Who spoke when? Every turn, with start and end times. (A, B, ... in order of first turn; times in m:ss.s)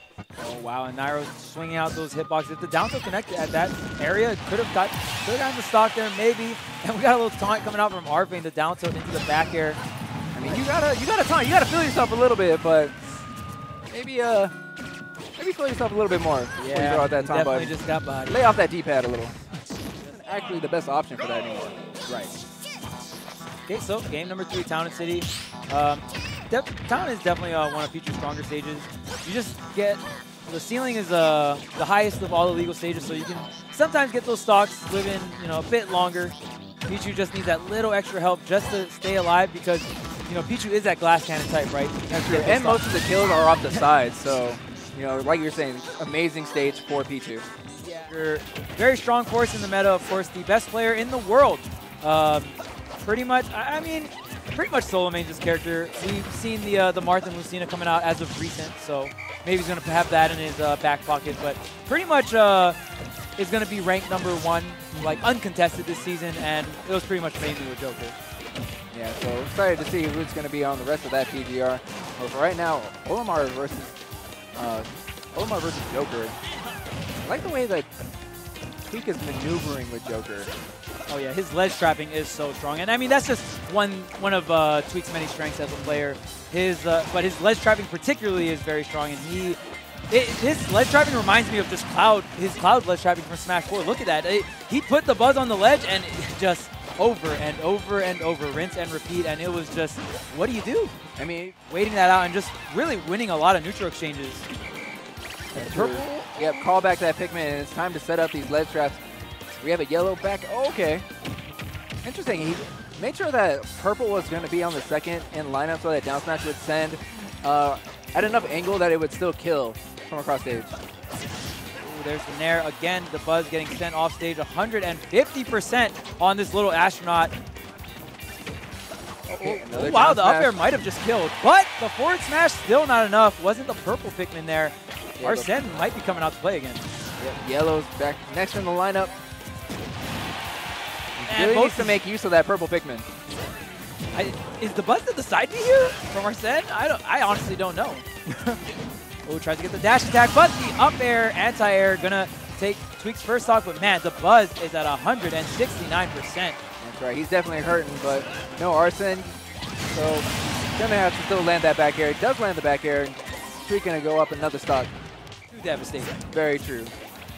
0:00.4-0:09.8 A
0:10.3-0:12.9 B
0:13.9-0:14.5 B
0:15.4-0:17.7 B
0:16.6-0:18.4 A
0:18.2-0:19.4 B
0:20.0-0:22.3 B
0:23.7-0:36.3 A
0:36.9-0:42.9 A
0:42.1-0:47.5 B
0:47.8-1:02.8 A
1:03.4-1:08.2 A
1:08.9-1:14.0 B
1:14.5-1:16.4 B
1:17.2-1:17.9 B
1:18.8-1:20.5 B
1:21.1-1:29.6 A
1:30.1-1:40.9 A
1:41.2-1:41.6 B
1:41.6-1:44.5 A
1:45.5-1:46.2 A
1:45.5-1:49.0 B
1:49.5-1:51.1 B
1:52.0-2:00.7 B
2:01.8-2:07.3 A
2:09.3-2:16.8 A
2:09.4-2:10.5 B
2:15.2-2:15.5 B
2:17.2-2:19.1 B
2:21.2-2:23.1 B
2:21.3-2:22.0 A
2:24.1-2:28.0 A
2:29.2-2:36.6 A
2:36.8-2:44.9 B
2:45.5-2:46.2 A
2:46.3-2:46.9 B